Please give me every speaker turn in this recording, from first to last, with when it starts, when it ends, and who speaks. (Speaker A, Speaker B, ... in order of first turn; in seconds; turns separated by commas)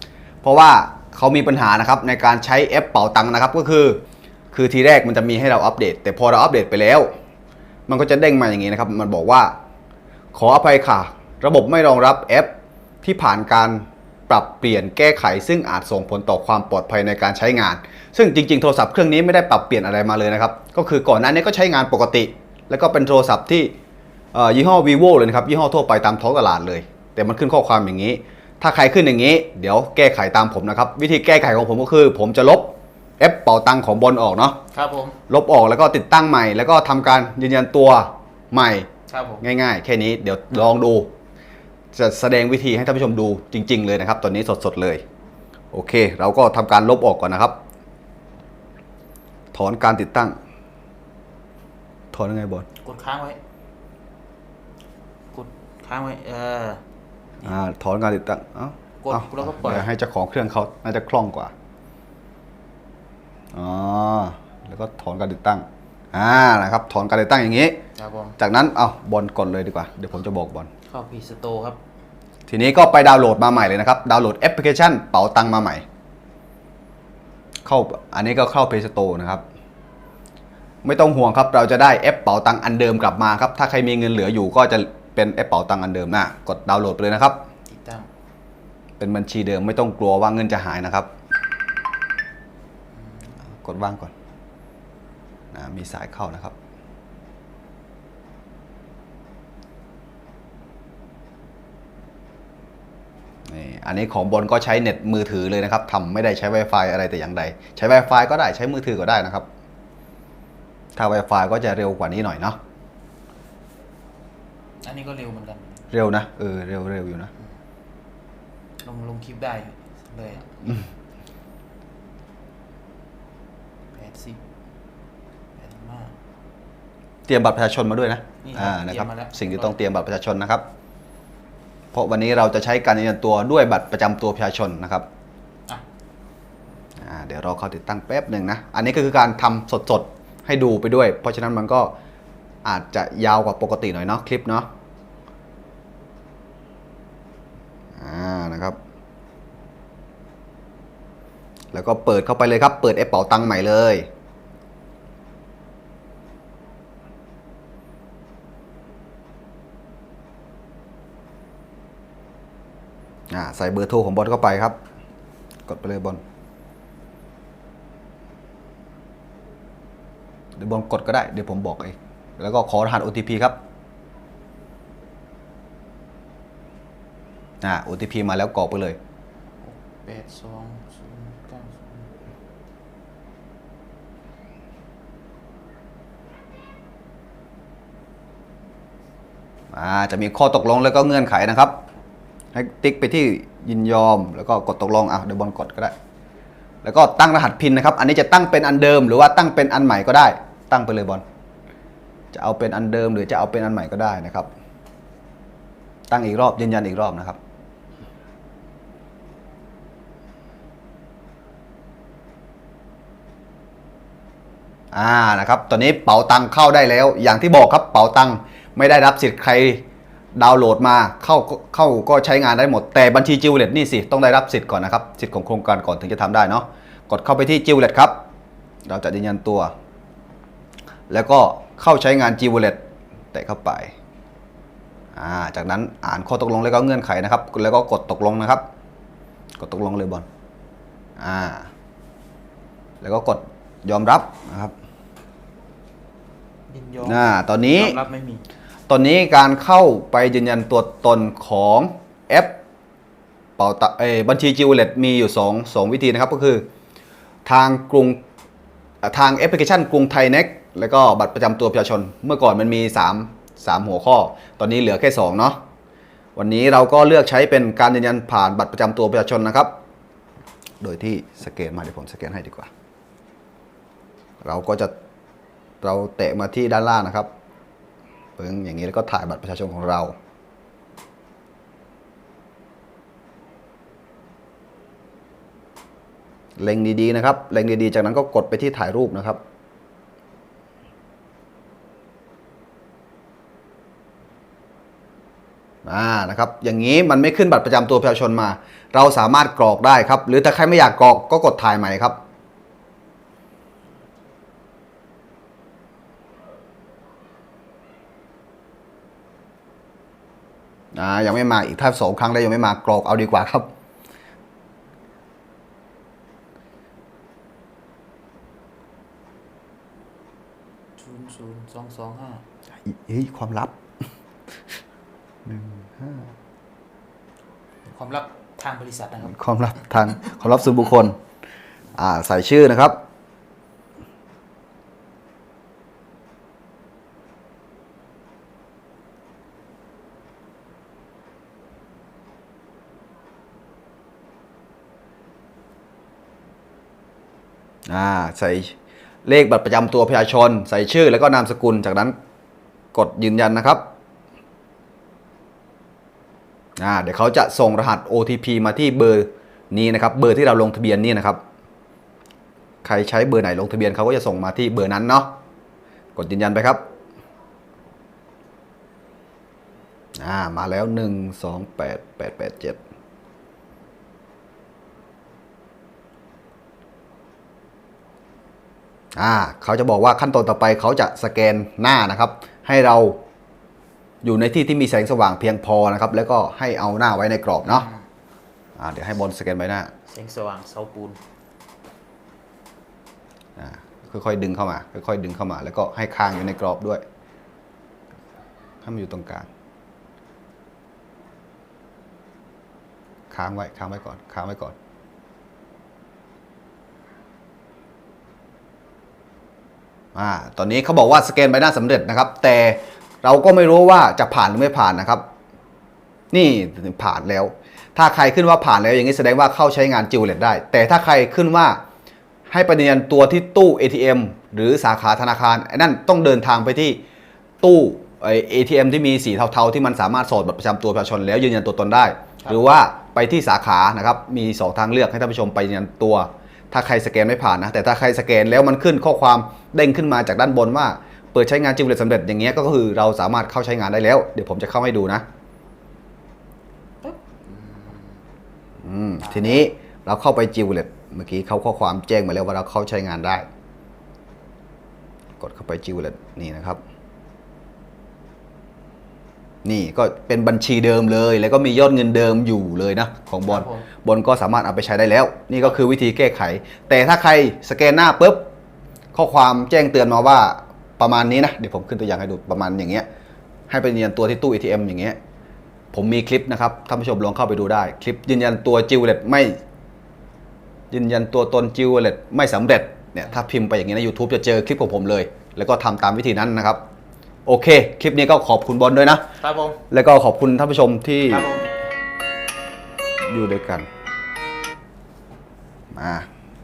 Speaker A: 0.4-4.0, Speaker A: 4.5-7.1, Speaker A: 7.9-9.5, Speaker A: 10.3-12.5, Speaker A: 13.0-23.7, Speaker A: 24.3-34.6, Speaker B: 34.7-35.2, Speaker A: 35.3-38.9, Speaker B: 39.1-39.4, Speaker A: 39.4-41.1, Speaker A: 41.9-45.0, Speaker A: 45.7-47.6, Speaker A: 49.5-50.4, Speaker A: 52.1-52.7, Speaker B: 52.8-53.4, Speaker B: 55.3-56.8, Speaker A: 57.4-61.5, Speaker B: 59.0-59.9, Speaker A: 63.5-67.8, Speaker B: 68.0-68.3, Speaker A: 68.4-70.7, Speaker B: 70.9-71.8, Speaker A: 72.5-75.8, Speaker A: 77.6-79.4, Speaker A: 80.8-87.4, Speaker B: 87.7-88.1, Speaker A: 89.0-91.1, Speaker B: 92.9-93.4, Speaker A: 93.4-94.1, Speaker A: 95.5-96.5, Speaker A: 103.5-109.5, Speaker A: 111.0-112.6, Speaker B: 114.8-115.9, Speaker A: 115.9-117.3, Speaker B: 118.8-120.8, Speaker B: 124.0-124.4, Speaker B: 125.6-126.1, Speaker A: 127.3-130.6, Speaker B: 128.4-129.8, Speaker A: 131.9-135.1, Speaker A: 137.0-141.9, Speaker A: 142.6-144.7, Speaker A: 148.0-148.8, Speaker A: 151.7-154.1, Speaker A: 163.3-164.8, Speaker A: 165.7-166.2, Speaker A: 170.6-173.6, Speaker A: 177.6-179.0, Speaker B: 179.6-182.1, Speaker A: 189.7-191.8, Speaker A: 192.5-195.9, Speaker A: 196.8-201.2, Speaker A: 202.3-204.5, Speaker A: 206.1-207.4, Speaker A: 214.9-219.8, Speaker A: 220.3-228.2, Speaker A: 228.9-229.7, Speaker A: 231.1-232.8, Speaker A: 233.3-233.9, Speaker A: 235.1-238.6, Speaker A: 239.6-240.2, Speaker A: 241.2-241.7, Speaker A: 243.0-244.7, Speaker B: 246.7-248.4, Speaker A: 247.0-248.0, Speaker A: 248.9-252.6, Speaker A: 253.6-256.6, Speaker A: 257.4-258.2, Speaker A: 259.0-265.6, Speaker A: 266.4-269.7, Speaker A: 270.8-272.7, Speaker A: 274.4-274.9, Speaker A: 275.8-277.3, Speaker A: 278.4-280.1, Speaker A: 286.6-289.4, Speaker A: 295.8-302.2, Speaker A: 310.9-313.7, Speaker B: 321.0-322.4, Speaker A: 322.8-323.7, Speaker A: 325.4-326.3, Speaker B: 327.8-330.3, Speaker A: 329.2-331.2, Speaker A: 331.9-333.0, Speaker A: 347.9-348.7, Speaker A: 349.2-352.1, Speaker A: 352.9-353.8, Speaker A: 356.8-361.4, Speaker A: 362.8-365.3, Speaker A: 366.1-366.8, Speaker A: 370.2-372.8, Speaker A: 379.1-383.2, Speaker A: 384.2-387.9, Speaker B: 387.7-388.0, Speaker A: 388.8-389.9, Speaker B: 390.1-391.2, Speaker A: 393.6-397.0, Speaker A: 398.8-399.5, Speaker A: 403.3-404.8, Speaker A: 410.1-415.2, Speaker A: 416.3-421.8, Speaker A: 422.5-427.0, Speaker A: 427.6-445.2, Speaker B: 447.0-448.2, Speaker A: 448.8-453.4, Speaker B: 449.2-449.6, Speaker A: 455.4-456.8, Speaker A: 459.6-468.4, Speaker B: 463.5-463.9, Speaker A: 469.1-473.1, Speaker A: 473.7-475.2, Speaker A: 475.9-479.6, Speaker A: 480.9-486.8, Speaker A: 487.4-489.2, Speaker B: 489.4-489.8, Speaker A: 489.9-491.5, Speaker B: 491.3-491.7, Speaker A: 493.3-493.9, Speaker A: 495.9-496.2